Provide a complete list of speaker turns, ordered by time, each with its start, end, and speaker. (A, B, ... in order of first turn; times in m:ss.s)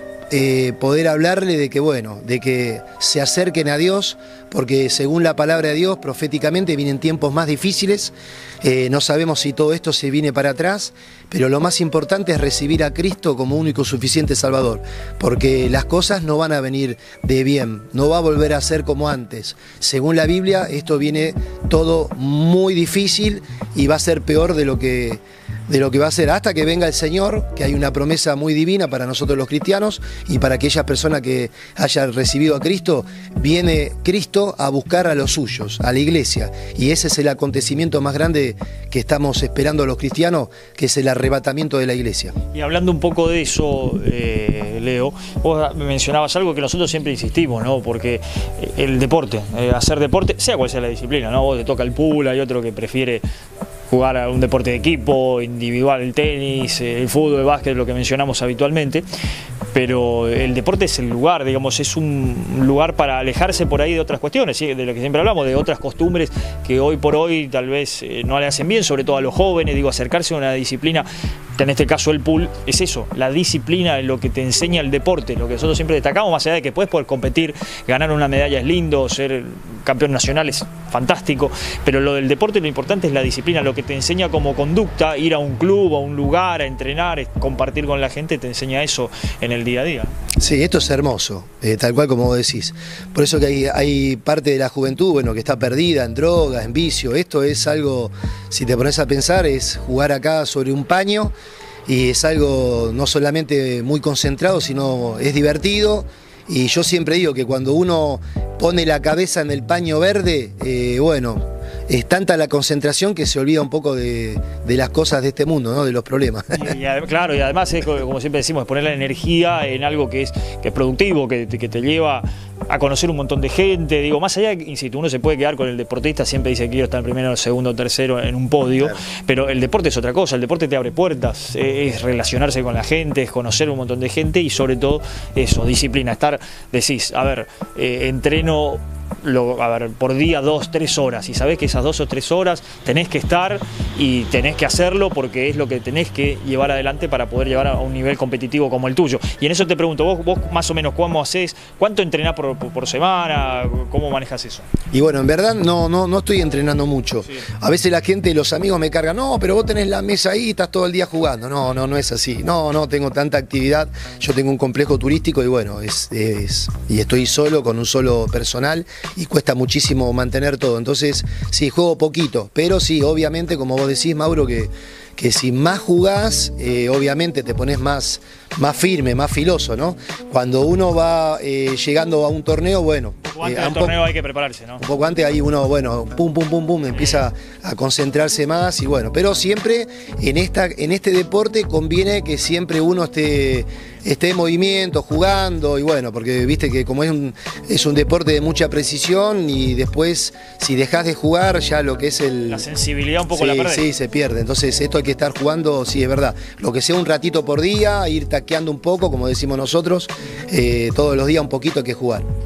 0:00.3-0:42.3 A
0:42.5-0:53.2 B
0:53.9-0:59.0 B
0:59.7-1:30.1 B
1:30.4-1:41.3 A
1:41.9-1:56.7 A
1:56.6-2:34.7 B
2:34.9-3:04.0 A
3:03.2-3:04.8 B
3:04.8-3:22.6 A
3:06.9-3:07.2 B
3:22.5-3:23.9 B
3:23.3-3:32.3 A